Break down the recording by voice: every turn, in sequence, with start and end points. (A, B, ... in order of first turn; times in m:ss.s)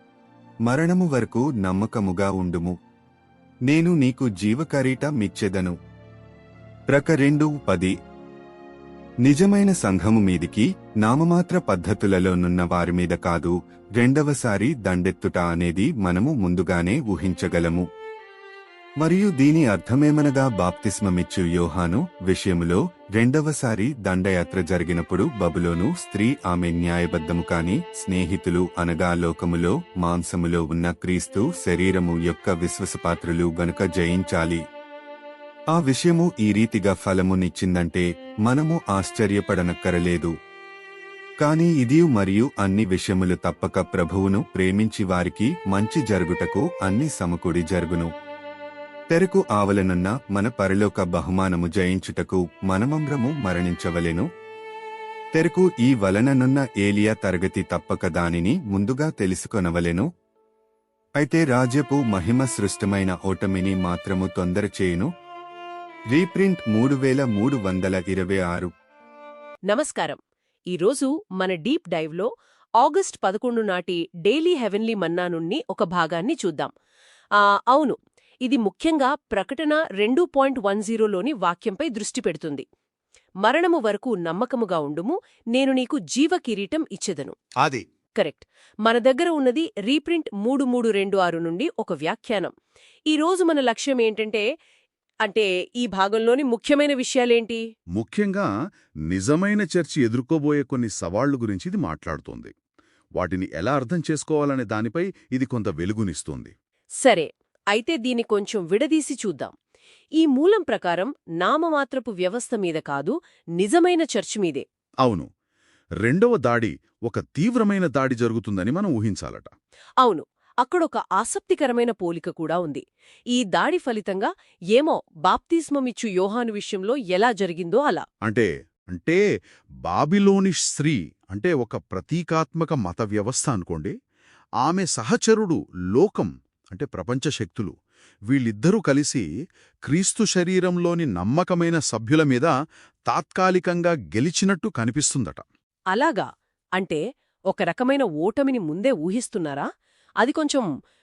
0:00.6-0:02.7 A
0:03.7-0:05.8 A
0:06.9-0:07.9 A
0:09.2-0:17.8 A
0:19.0-0:34.6 A
0:35.7-0:40.3 A
0:41.4-0:48.1 A
0:49.1-0:54.2 A
0:55.3-1:00.1 A
1:01.2-1:05.1 A
1:06.1-1:08.7 A
1:09.7-1:10.2 B
1:10.7-1:12.3 B
1:12.8-1:16.7 B
1:17.4-1:22.6 B
1:23.4-1:27.4 B
1:28.2-1:32.5 B
1:33.1-1:34.4 B
1:35.2-1:37.6 B
1:38.0-1:38.5 C
1:39.1-1:42.5 C
1:43.2-1:46.5 C
1:47.0-1:49.5 B
1:50.2-1:54.6 B
1:55.0-1:55.3 C
1:56.0-1:59.5 C
2:00.0-2:08.0 B
2:08.2-2:09.2 C
2:09.8-2:13.9 C
2:14.6-2:17.7 C
2:18.3-2:19.2 C
2:19.8-2:22.5 C
2:23.1-2:25.4 C
2:25.9-2:26.2 B
2:27.5-2:29.7 B
2:30.2-2:30.7 B